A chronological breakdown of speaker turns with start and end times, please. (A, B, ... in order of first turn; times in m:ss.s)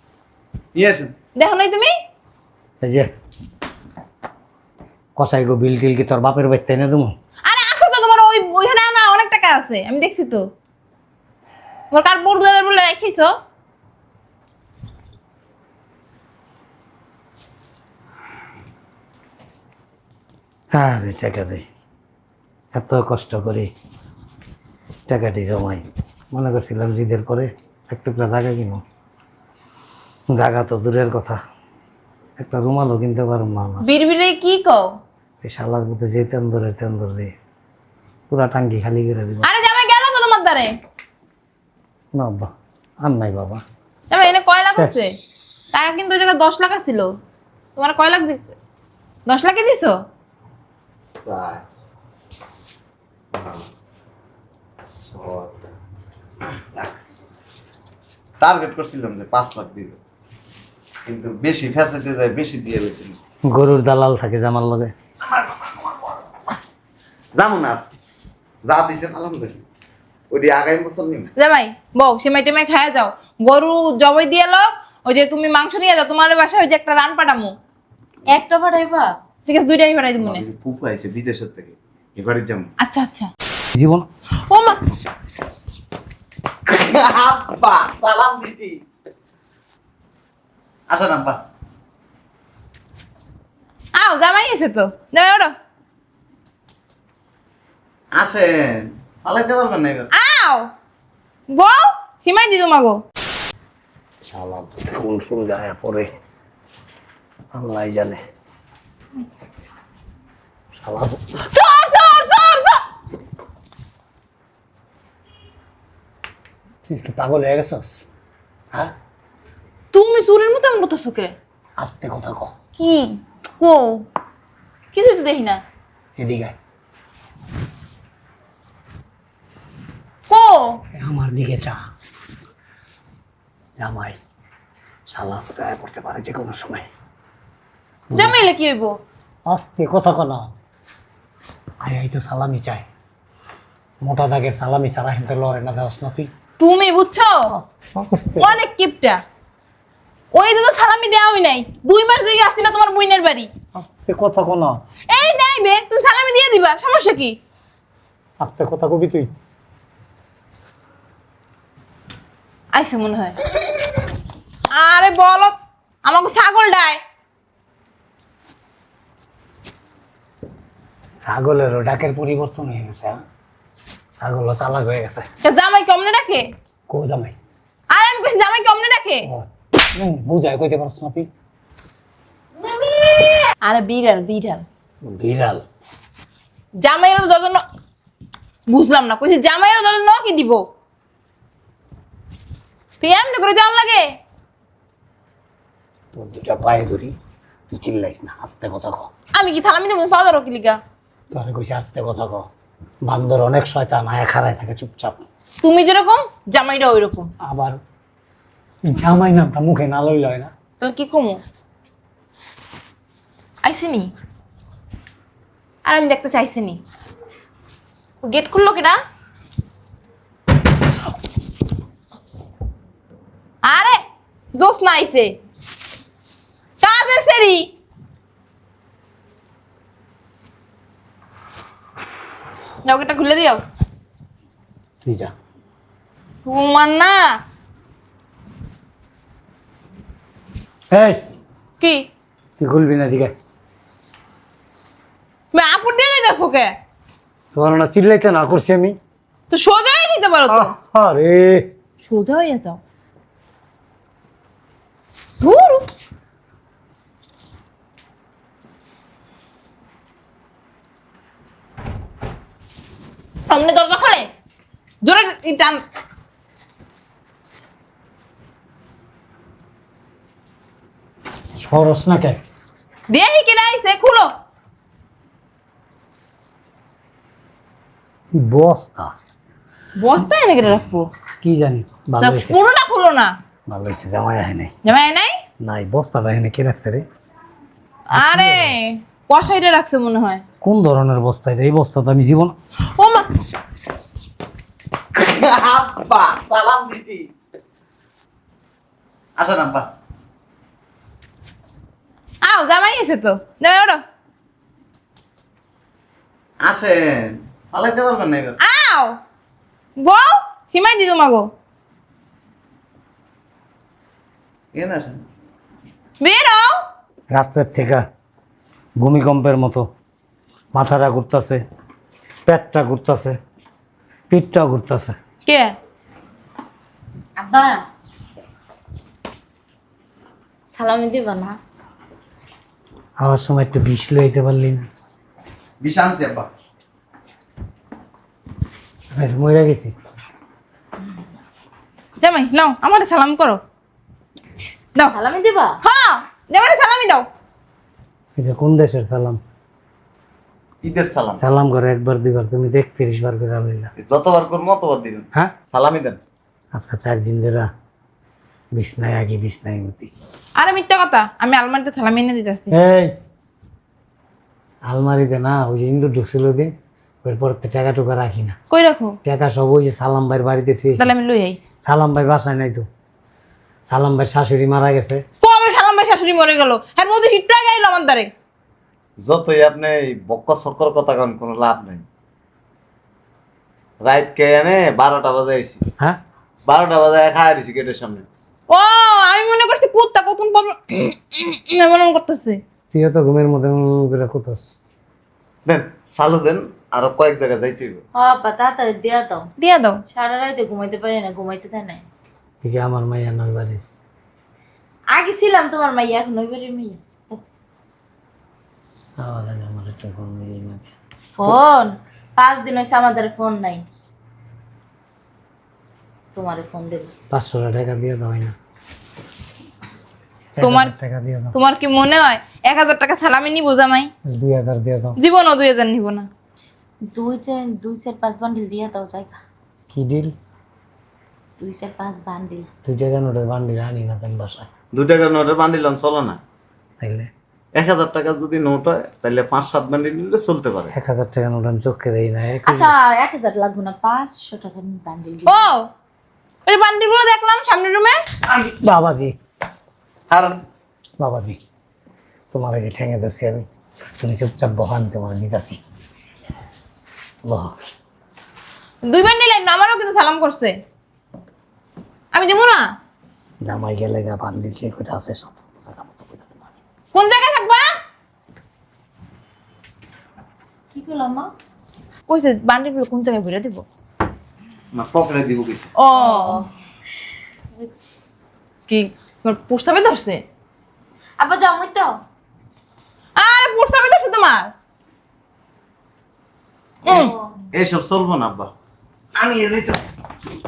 0:00.8-0:01.1 A
0:01.4-0:01.9 B
0:02.8-0:03.1 C
0:05.2-0:07.1 C
0:07.5-0:10.5 B
0:11.9-0:13.3 B
0:20.8-0:21.6 C
0:22.7-0:23.7 C
0:25.1-0:28.8 C
0:30.3-0:31.4 C
0:32.4-0:33.9 C
0:33.8-0:34.9 B
0:35.4-0:37.3 C
0:38.3-0:39.5 C
0:39.4-0:40.7 B
0:42.1-0:42.5 C
0:43.0-0:43.6 C
0:44.1-0:45.1 B
0:44.7-0:45.0 C
0:45.7-0:47.1 B
0:47.8-0:48.6 B
0:49.3-0:50.0 B
0:51.2-0:51.6 A
0:53.4-0:53.7 A
0:55.0-0:55.7 A
0:58.4-1:00.0 A
1:01.1-1:03.2 A
1:03.5-1:04.9 C
1:07.4-1:07.8 A
1:08.7-1:09.6 A
1:10.3-1:11.3 A
1:11.4-1:17.5 B
1:18.3-1:19.1 D
1:19.5-1:20.4 B
1:20.2-1:22.7 A
1:22.8-1:23.3 B
1:23.7-1:24.1 C
1:24.4-1:24.8 B
1:26.7-1:28.8 A
1:30.9-1:31.4 A
1:33.9-1:35.5 B
1:38.1-1:40.1 A
1:40.1-1:40.7 B
1:41.5-1:43.0 B
1:44.2-1:46.1 C
1:47.5-1:48.2 C
1:50.7-1:51.2 C
1:51.5-1:52.8 B
1:56.9-1:58.1 C
1:59.9-2:01.3 B
2:01.8-2:02.5 C
2:02.8-2:04.1 B
2:04.9-2:05.6 B
2:06.2-2:06.5 C
2:10.3-2:10.8 B
2:10.9-2:11.8 C
2:13.8-2:14.2 C
2:15.1-2:16.8 C
2:18.1-2:18.5 C
2:18.1-2:19.0 B
2:19.5-2:20.5 C
2:21.8-2:22.8 C
2:24.0-2:26.3 C
2:26.6-2:27.5 B
2:27.8-2:28.6 C
2:28.4-2:29.2 B
2:30.3-2:33.5 B
2:33.8-2:34.8 C
2:35.1-2:37.4 B
2:38.4-2:39.3 C
2:42.7-2:43.4 B
2:44.7-2:47.0 B
2:51.2-2:53.2 C
2:54.2-2:55.2 C
2:55.4-2:56.5 B
2:56.9-2:57.4 C
2:57.9-2:59.3 B
2:59.3-3:01.3 C
3:03.6-3:04.7 B
3:05.0-3:05.6 C
3:06.8-3:07.6 B
3:08.7-3:10.6 B
3:13.0-3:14.1 B
3:16.1-3:17.1 C
3:17.7-3:19.1 C
3:19.4-3:20.8 B
3:21.3-3:22.5 C
3:23.0-3:25.2 C
3:25.6-3:27.3 B
3:27.4-3:27.8 C
3:28.8-3:30.5 C
3:30.8-3:31.4 B
3:33.6-3:34.1 B
3:35.8-3:36.8 B
3:38.2-3:39.0 B
3:43.6-3:44.0 B
3:44.6-3:45.4 B
3:46.8-3:47.7 B
3:52.8-3:53.6 B
3:55.0-3:55.3 C
3:56.4-3:57.3 B
4:00.9-4:01.2 C
4:01.8-4:02.1 B
4:02.6-4:03.3 C
4:05.5-4:06.7 B
4:07.6-4:09.0 C
4:09.5-4:10.7 B
4:10.5-4:11.7 C
4:12.0-4:12.8 B
4:15.4-4:15.9 B
4:23.5-4:24.3 B
4:25.0-4:25.8 B
4:31.6-4:32.4 C
4:33.1-4:34.3 B
4:38.3-4:39.1 C
4:40.0-4:41.1 B
4:41.4-4:42.6 C
4:42.2-4:43.4 B
4:43.7-4:44.7 C
4:44.8-4:45.4 B
4:45.6-4:47.0 C
4:48.1-4:50.4 B
4:48.2-4:48.8 C
4:50.6-4:52.5 C
4:52.9-4:53.3 B
4:55.2-4:57.3 A
4:59.4-4:59.9 A
5:02.4-5:04.0 B
5:06.6-5:08.6 A
5:08.6-5:09.2 B
5:10.0-5:11.5 B
5:14.8-5:15.2 A
5:16.2-5:16.8 B
5:17.3-5:18.0 C
5:19.0-5:19.9 C
5:20.8-5:21.6 C
5:22.5-5:23.4 C
5:24.3-5:25.2 C
5:25.4-5:25.7 B
5:27.4-5:27.8 D
5:30.7-5:31.6 D
5:33.2-5:34.9 C
5:35.8-5:36.5 A
5:39.1-5:39.9 C
5:42.2-5:43.6 B
5:45.1-5:45.8 D
5:45.8-5:47.3 B
5:48.4-5:49.4 C
5:50.8-5:51.4 A
5:51.4-5:53.9 C
5:54.0-5:56.2 A
5:56.8-5:57.7 C
5:58.8-6:00.1 C
6:00.6-6:02.7 B
6:02.7-6:03.1 C
6:04.9-6:06.7 C
6:07.2-6:08.6 C
6:08.7-6:09.2 B
6:09.2-6:11.1 C
6:11.0-6:11.6 B
6:11.8-6:12.9 C
6:13.9-6:15.2 C
6:15.4-6:18.3 B
6:19.2-6:22.0 A
6:24.0-6:25.8 A
6:26.7-6:28.3 A
6:28.7-6:32.6 B
6:32.9-6:34.8 C
6:35.7-6:38.0 A
6:38.2-6:39.5 D
6:39.6-6:40.0 B
6:40.1-6:42.0 D
6:42.6-6:43.9 C
6:45.1-6:47.4 D
6:49.2-6:50.8 C
6:51.4-6:53.8 D
6:56.3-6:57.1 D
6:57.3-6:58.6 C
7:00.6-7:01.5 C
7:00.6-7:00.9 B
7:01.5-7:04.1 B
7:04.3-7:05.2 C
7:05.2-7:06.3 B
7:07.1-7:09.4 D
7:09.9-7:10.3 C
7:11.6-7:12.7 D
7:12.8-7:14.7 C
7:14.9-7:16.4 A
7:17.0-7:17.3 C
7:17.8-7:20.9 A
7:20.9-7:23.0 C
7:22.6-7:25.7 D
7:25.5-7:25.9 B
7:26.7-7:28.2 B
7:28.5-7:29.4 C
7:30.3-7:30.6 A
7:31.2-7:31.6 C
7:32.5-7:33.7 C
7:34.2-7:35.8 C
7:37.5-7:37.8 C
7:39.0-7:40.8 B
7:42.3-7:42.8 B
7:43.6-7:46.7 C
7:47.1-7:47.9 B
7:50.9-7:51.5 D
7:52.3-7:53.8 B
7:54.9-7:55.9 A
7:56.0-7:56.6 B
7:56.1-7:56.7 D
7:57.8-7:58.2 D
7:58.9-8:00.4 B
8:01.4-8:02.1 D
8:03.4-8:04.7 B
8:07.1-8:07.3 B
8:07.1-8:07.5 D
8:07.8-8:08.7 A
8:09.4-8:10.0 A